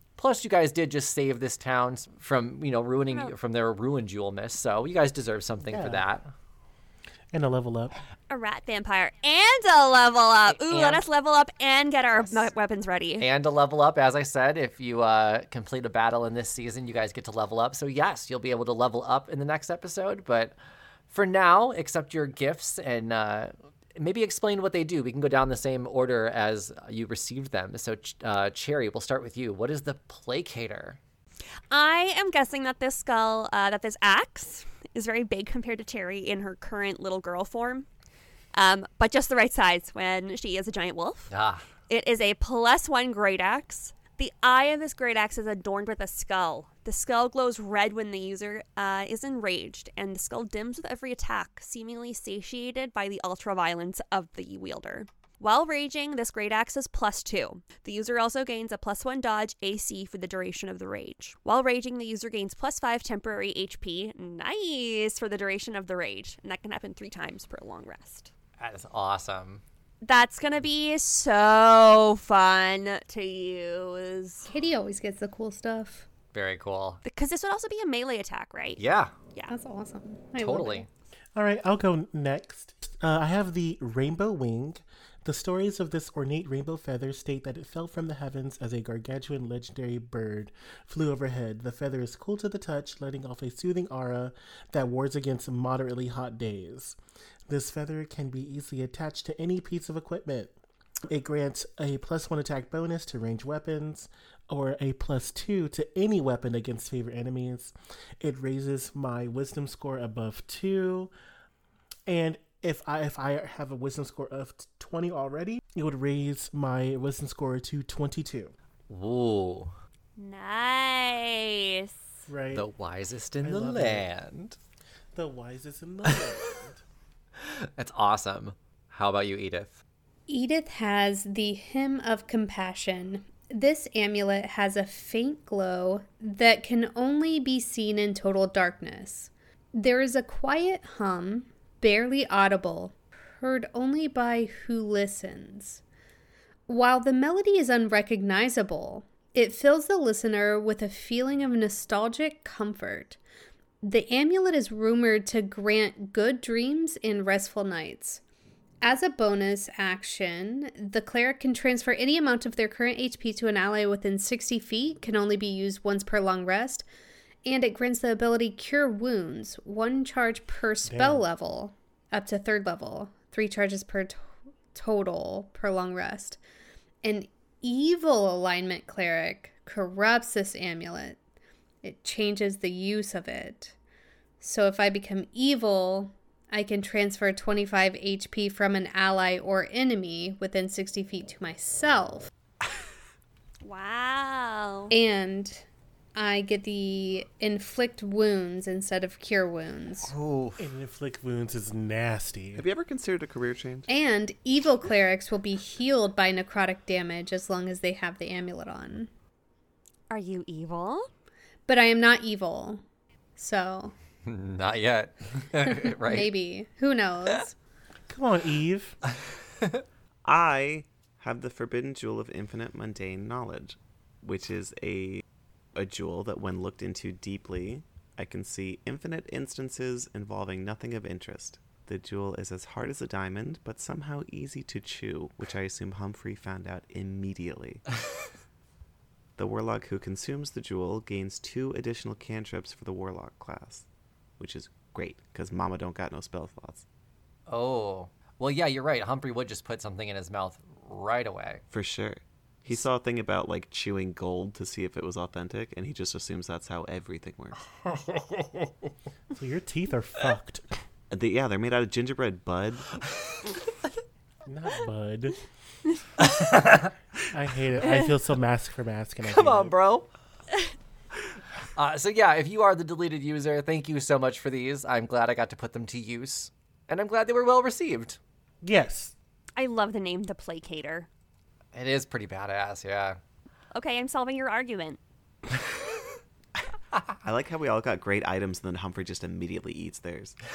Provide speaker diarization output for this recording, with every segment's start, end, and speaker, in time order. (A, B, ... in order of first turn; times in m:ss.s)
0:00.2-0:06.3 A
0:05.7-0:06.1 B
0:07.3-0:08.0 B
0:08.3-0:13.3 C
0:10.5-0:11.0 A
0:13.2-0:20.6 A
0:21.1-0:31.0 A
0:31.7-0:37.9 C
0:38.6-0:41.3 C
0:41.3-0:41.7 A
0:41.9-1:08.3 C
1:08.6-1:09.6 A
1:10.0-1:14.5 C
1:14.5-1:16.0 D
1:16.3-1:17.0 A
1:17.0-1:18.8 C
1:18.8-1:19.1 A
1:19.5-1:20.9 D
1:20.4-1:20.9 A
1:21.4-1:40.5 B
1:41.1-1:51.1 B
1:52.1-1:58.5 B
1:58.9-1:59.8 A
2:00.2-2:02.0 C
2:02.3-2:02.7 B
2:02.5-2:04.6 A
2:03.4-2:04.1 B
2:05.1-2:06.8 B
2:07.4-2:09.8 A
2:10.3-2:25.8 D
2:26.7-2:33.2 D
2:33.8-2:38.2 D
2:38.8-2:46.8 D
2:47.4-2:56.4 D
2:50.9-2:51.3 B
2:57.0-3:01.2 D
3:01.8-3:03.8 D
3:04.4-3:12.3 D
3:13.6-3:14.9 C
3:14.9-3:15.6 D
3:16.1-3:20.1 D
3:20.1-3:20.6 A
3:20.6-3:22.6 B
3:22.6-3:23.9 E
3:23.9-3:29.1 D
3:30.1-3:31.1 C
3:31.7-3:32.8 D
3:33.4-3:33.9 D
3:34.3-3:36.3 A
3:35.7-3:37.6 D
3:38.1-3:39.0 B
3:40.2-3:45.2 E
3:45.8-3:57.9 E
3:59.4-4:03.9 E
4:04.4-4:06.8 E
4:07.5-4:11.6 A
4:11.7-4:17.6 E
4:17.9-4:18.7 A
4:19.3-4:20.6 B
4:21.1-4:23.0 E
4:24.4-4:25.4 B
4:26.2-4:26.9 A
4:27.3-4:29.7 B
4:29.2-4:30.1 A
4:31.8-4:38.2 A
4:38.6-4:39.1 B
4:39.6-4:41.1 C
4:41.7-4:43.2 A
4:43.7-4:45.0 C
4:47.2-4:50.4 E